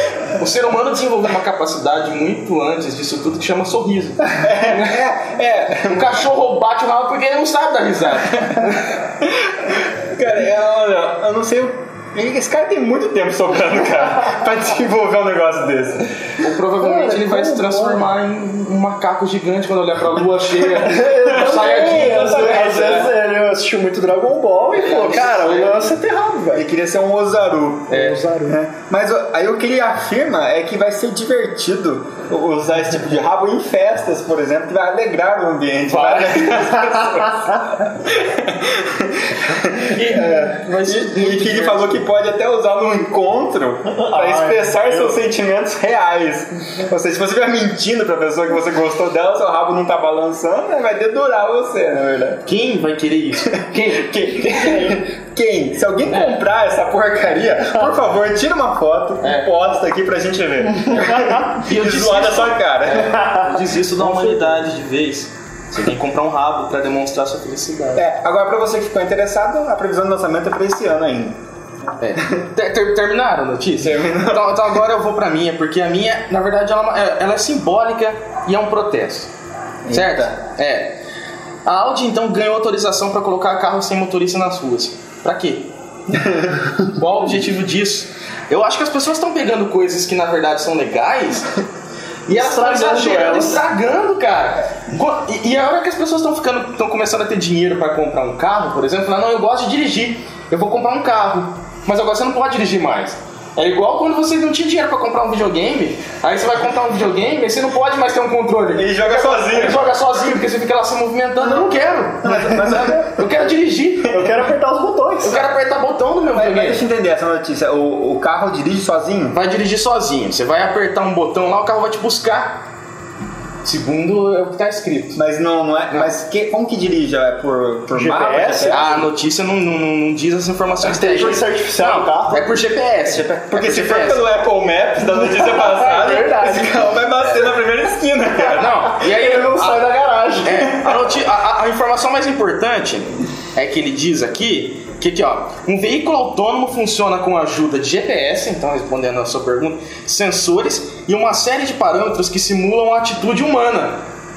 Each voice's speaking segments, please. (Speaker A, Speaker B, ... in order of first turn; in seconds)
Speaker A: 0.3-5.0, 5.9-9.0, 16.4-23.1, 24.7-25.8, 27.9-28.2, 35.9-36.9, 39.8-42.0, 52.4-53.6, 56.0-56.4, 59.2-59.5, 60.9-68.0, 72.0-79.3, 79.9-81.0, 81.6-85.7, 86.9-91.5, 92.3-114.2, 115.2-116.8, 119.3-122.6, 123.6-125.2, 128.7-134.2, 138.5-139.8, 140.4-154.0
Speaker B: 4.4-6.2, 9.2-16.0, 21.3-23.1, 26.5-52.4, 53.5-63.2, 64.0-64.4, 68.0-71.4, 73.8-74.7, 79.8-80.4, 86.1-86.9, 108.7-109.8, 111.4-111.7, 112.2-113.3, 116.3-119.4, 125.1-129.1, 133.0-138.9
Speaker C: 16.8-18.0, 20.8-26.6, 27.9-28.6, 43.9-45.2, 51.9-52.4, 53.7-55.0, 60.9-61.5, 92.3-93.6, 114.1-115.5, 127.9-129.0, 130.9-132.5, 135.0-136.9, 139.0-141.0